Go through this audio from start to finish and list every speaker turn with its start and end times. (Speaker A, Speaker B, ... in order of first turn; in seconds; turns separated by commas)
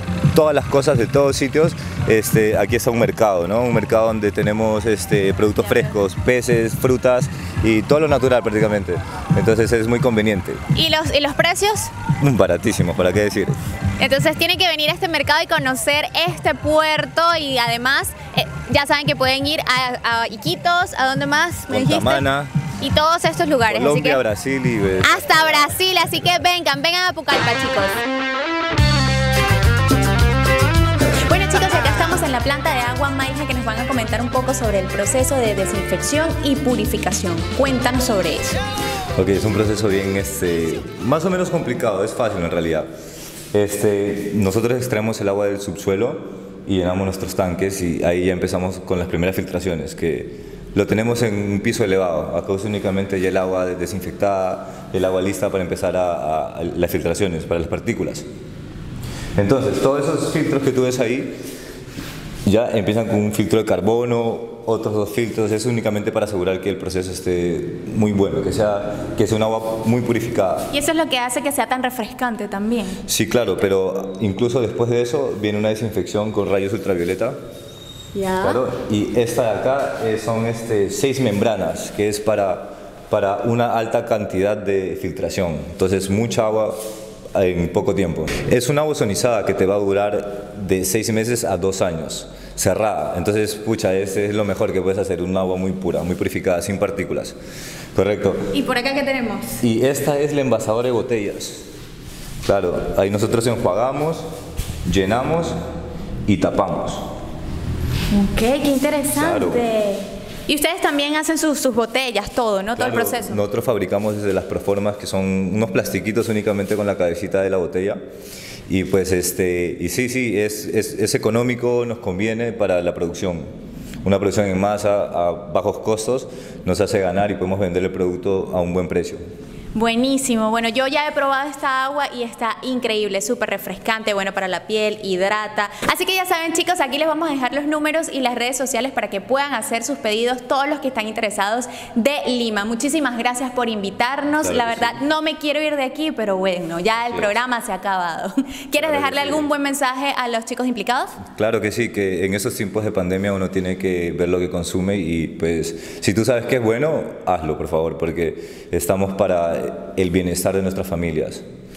Speaker A: 0.3-10.6, Speaker B: 5.6-5.9, Speaker B: 10.7-11.9, Speaker A: 12.2-13.6, Speaker B: 14.0-22.2, Speaker A: 21.7-22.5, Speaker B: 22.8-24.2, Speaker A: 23.7-25.7, Speaker B: 25.0-28.0, Speaker B: 31.3-38.5, Speaker A: 39.1-42.9, Speaker A: 43.5-58.2, Speaker A: 59.4-61.4, Speaker A: 62.4-70.7, Speaker B: 70.7-73.0, Speaker A: 73.1-77.4, Speaker B: 78.1-78.6, Speaker A: 78.4-86.8, Speaker A: 87.3-97.3, Speaker A: 97.9-98.5, Speaker B: 98.5-99.6, Speaker A: 99.6-101.6, Speaker A: 102.4-104.2, Speaker A: 104.8-105.6, Speaker A: 106.2-107.0, Speaker B: 108.1-113.4, Speaker A: 109.1-109.6, Speaker A: 112.8-118.0, Speaker A: 118.7-123.5, Speaker A: 124.0-129.2, Speaker B: 129.7-151.2, Speaker A: 144.4-145.0, Speaker A: 147.1-147.3, Speaker A: 148.8-149.5, Speaker A: 151.3-161.4